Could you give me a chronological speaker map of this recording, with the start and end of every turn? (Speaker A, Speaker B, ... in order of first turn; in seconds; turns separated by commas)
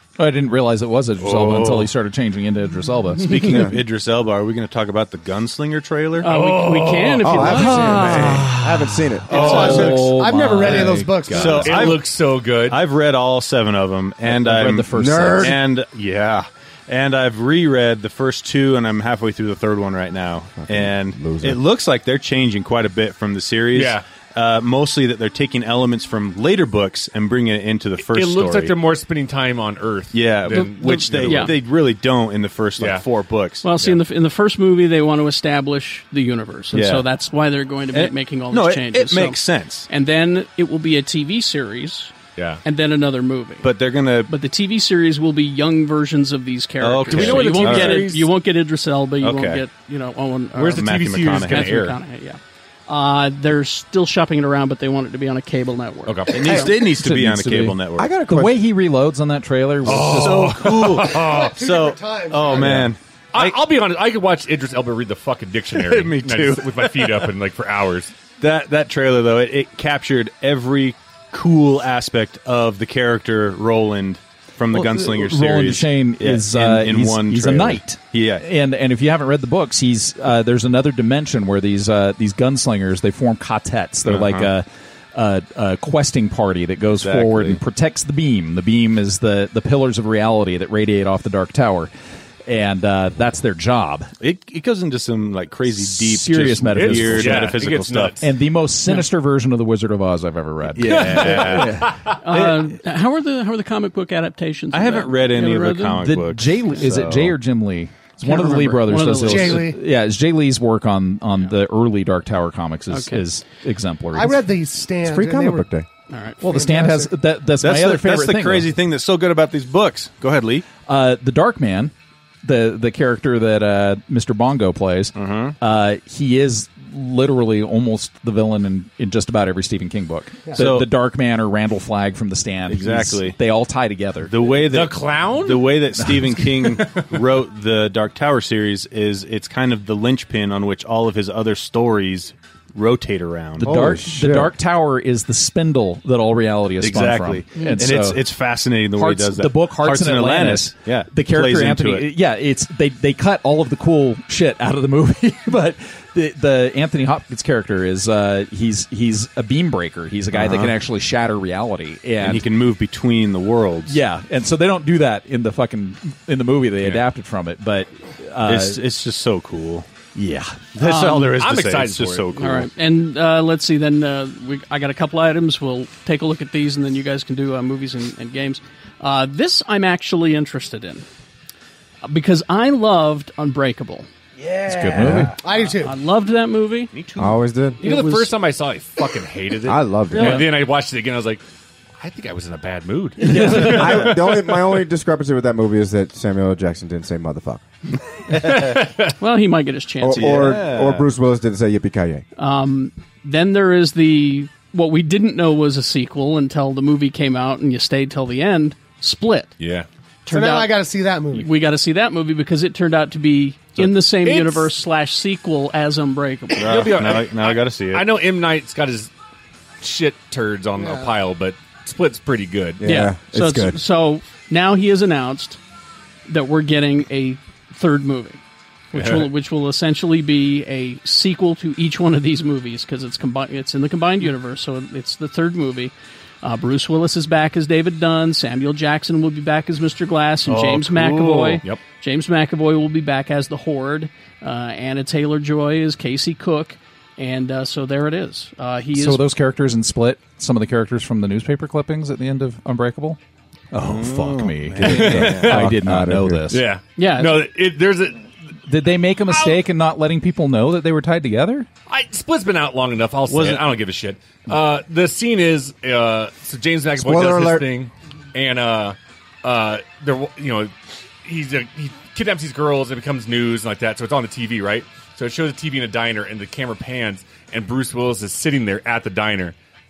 Speaker A: 0.2-3.5, Speaker B: 1.2-1.9, Speaker C: 3.2-6.3, Speaker D: 3.4-3.8, Speaker E: 6.2-8.5, Speaker B: 6.3-8.5, Speaker D: 7.2-9.8, Speaker A: 8.3-8.7, Speaker F: 9.3-11.8, Speaker B: 9.3-10.0, Speaker C: 9.3-10.0, Speaker A: 9.4-11.7, Speaker C: 10.7-12.1, Speaker B: 11.3-12.8, Speaker C: 12.7-28.8, Speaker A: 14.2-15.6, Speaker D: 14.9-15.6, Speaker D: 20.6-21.6, Speaker B: 23.7-24.0, Speaker B: 28.0-31.6, Speaker C: 30.1-33.6, Speaker E: 30.5-31.5, Speaker B: 32.8-33.1, Speaker E: 33.6-42.1, Speaker C: 36.7-37.1, Speaker C: 37.9-39.9, Speaker E: 42.6-43.7, Speaker C: 43.6-44.3, Speaker E: 44.3-56.7, Speaker C: 46.8-48.1, Speaker B: 47.1-48.3, Speaker C: 49.2-49.6, Speaker C: 50.6-52.0, Speaker B: 50.7-51.9, Speaker B: 56.1-56.6, Speaker C: 56.3-58.2, Speaker A: 56.7-60.6, Speaker D: 58.0-58.6, Speaker C: 59.8-63.6, Speaker B: 59.9-61.5, Speaker F: 60.9-62.8, Speaker A: 62.6-62.9, Speaker B: 63.3-68.1, Speaker C: 65.7-67.3, Speaker C: 68.4-78.5, Speaker A: 74.7-91.9, Speaker C: 84.0-84.5, Speaker C: 87.0-87.6, Speaker A: 92.5-94.1, Speaker C: 94.2-98.2, Speaker A: 95.8-97.6, Speaker B: 96.8-98.2, Speaker A: 98.2-101.9, Speaker C: 100.8-102.7, Speaker B: 100.8-102.2, Speaker E: 102.2-106.0, Speaker C: 104.7-107.4, Speaker A: 106.0-114.5, Speaker E: 108.2-109.7, Speaker F: 109.2-109.8, Speaker E: 112.9-113.2, Speaker F: 114.1-115.7, Speaker D: 115.0-115.9, Speaker E: 116.1-116.4, Speaker A: 116.4-118.7, Speaker F: 116.5-117.1, Speaker C: 117.6-120.7, Speaker A: 120.8-121.9, Speaker A: 122.4-134.3, Speaker C: 125.2-125.6, Speaker C: 130.5-130.9, Speaker C: 132.7-133.4, Speaker C: 134.2-143.7, Speaker B: 134.7-135.8, Speaker B: 136.6-137.1, Speaker A: 143.6-148.3, Speaker D: 143.6-144.5, Speaker C: 146.8-152.1, Speaker E: 147.6-147.8, Speaker A: 148.9-162.5, Speaker C: 160.3-160.8, Speaker C: 162.2-164.0, Speaker A: 163.9-168.8, Speaker C: 168.4-169.9, Speaker A: 170.2-170.7, Speaker C: 170.7-172.7, Speaker E: 170.8-171.3, Speaker B: 171.1-172.3, Speaker E: 172.4-181.1, Speaker E: 182.0-184.1, Speaker B: 184.4-185.2, Speaker A: 184.7-185.3, Speaker D: 185.0-185.3, Speaker F: 185.4-185.9, Speaker E: 185.8-186.9, Speaker B: 186.9-191.4, Speaker D: 187.2-187.8, Speaker E: 187.8-188.3, Speaker D: 189.7-190.4, Speaker E: 190.1-190.5, Speaker B: 192.0-194.4, Speaker E: 193.3-193.8, Speaker A: 193.3-193.8, Speaker D: 193.3-197.7, Speaker C: 198.3-198.8, Speaker B: 198.5-199.1, Speaker E: 199.2-200.6, Speaker D: 200.0-202.2, Speaker C: 200.1-201.1, Speaker E: 202.4-209.5, Speaker B: 209.6-209.9, Speaker E: 210.3-210.7, Speaker F: 210.3-211.5, Speaker E: 211.3-216.9, Speaker B: 214.1-214.7, Speaker C: 216.6-218.1, Speaker B: 216.6-219.1, Speaker B: 219.8-222.8, Speaker F: 220.8-221.1, Speaker D: 222.8-223.8, Speaker E: 222.8-225.6, Speaker E: 226.3-228.4, Speaker E: 228.9-249.2, Speaker B: 228.9-229.3, Speaker B: 240.5-241.8, Speaker C: 240.6-241.6, Speaker A: 248.9-253.2, Speaker A: 253.7-256.6, Speaker C: 253.8-255.7, Speaker B: 254.8-255.7, Speaker D: 254.9-256.5, Speaker B: 256.5-258.3, Speaker E: 257.0-257.4, Speaker A: 258.7-261.7, Speaker B: 261.9-270.7, Speaker C: 263.3-263.8, Speaker D: 267.0-267.7, Speaker B: 271.2-279.6